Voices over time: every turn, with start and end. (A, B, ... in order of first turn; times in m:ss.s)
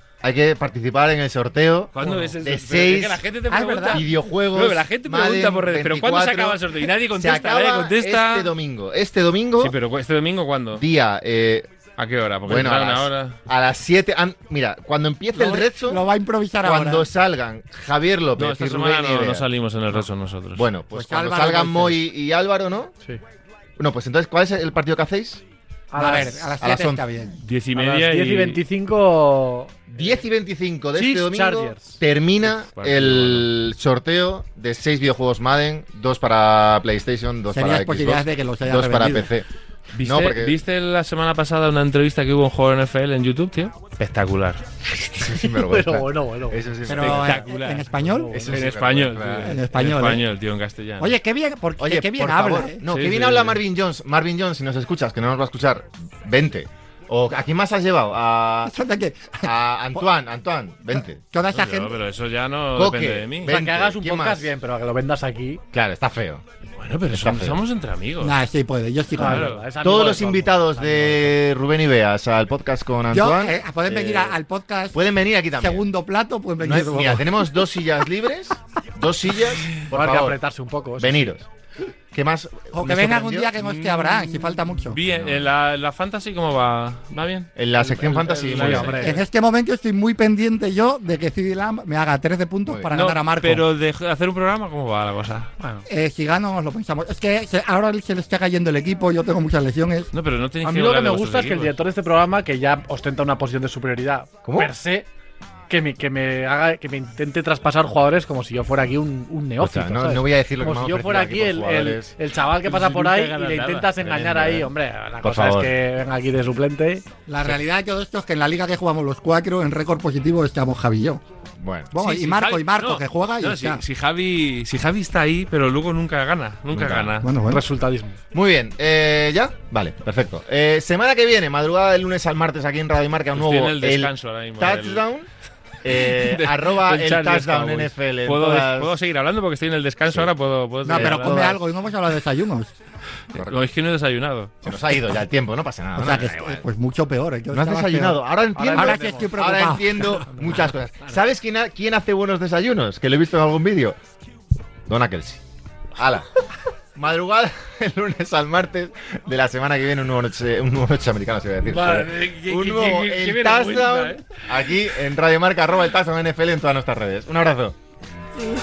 0:00.2-0:03.2 A
0:01.9-0:08.5 B
0:03.5-0:04.0 C
0:03.9-0:09.7 A
0:09.6-0:10.8 B
0:10.8-0:11.7 A
0:12.0-0:13.4 B
0:12.5-0:16.0 A
0:15.3-0:17.1 C
0:16.6-0:19.4 A
0:18.4-0:20.6 B
0:20.5-0:22.9 A
0:20.9-0:22.0 C
0:23.8-0:25.4 A
0:25.9-0:26.5 D
0:25.9-0:27.4 C
0:26.6-0:27.0 A
0:27.4-0:28.6 B
0:27.7-0:30.0 D
0:29.9-0:39.5 A
0:30.9-0:32.0 D
0:32.4-0:33.5 B
0:37.5-0:39.3 C
0:39.9-0:44.6 B
0:40.0-0:40.6 A
0:45.0-0:47.4 A
0:45.2-0:47.1 D
0:46.8-0:48.4 C
0:47.0-0:47.9 B
0:47.9-0:48.7 D
0:48.3-0:49.6 A
0:48.5-0:51.1 B
0:49.4-0:50.2 C
0:51.0-0:52.8 C
0:51.8-0:58.7 A
0:52.8-0:53.6 B
0:58.6-1:00.1 C
0:59.4-1:01.2 A
1:00.9-1:02.0 C
1:01.5-1:03.6 B
1:02.7-1:04.5 A
1:03.4-1:05.6 D
1:05.7-1:06.4 A
1:06.8-1:08.4 B
1:07.1-1:07.6 A
1:08.2-1:09.5 C
1:09.2-1:11.4 D
1:09.2-1:09.6 B
1:09.8-1:14.3 A
1:13.1-1:15.0 C
1:14.9-1:15.8 A
1:15.6-1:17.5 C
1:16.6-1:20.4 A
1:19.9-1:21.4 D
1:21.0-1:21.4 A
1:22.1-1:23.6 A
1:22.7-1:25.0 C
1:23.6-1:29.1 B
1:25.0-1:25.5 A
1:27.5-1:29.1 A
1:28.2-1:29.2 D
1:29.0-1:33.6 C
1:32.9-1:35.5 B
1:35.6-1:35.9 D
1:35.9-1:40.1 C
1:40.1-1:41.7 B
1:40.6-1:45.1 D
1:44.4-1:44.7 A
1:45.7-1:57.0 D
1:49.6-1:52.1 A
1:52.6-1:54.0 B
1:54.0-1:54.7 A
1:55.2-1:55.7 A
1:57.3-2:01.2 C
2:01.6-2:01.9 A
2:01.9-2:03.8 C
2:01.9-2:07.3 B
2:06.7-2:07.2 A
2:07.2-2:07.6 C
2:07.5-2:08.2 D
2:08.3-2:15.3 A
2:13.3-2:15.0 B
2:15.8-2:18.9 A
2:15.9-2:21.6 B
2:20.8-2:22.7 C
2:20.9-2:21.6 A
2:23.4-2:24.7 B
2:24.6-2:26.6 A
2:25.9-2:28.2 C
2:27.5-2:34.0 A
2:28.6-2:29.2 D
2:28.7-2:30.2 C
2:30.3-2:30.6 D
2:34.9-2:35.4 A
2:36.0-2:36.4 A
2:37.0-2:47.7 A
2:41.6-2:44.8 B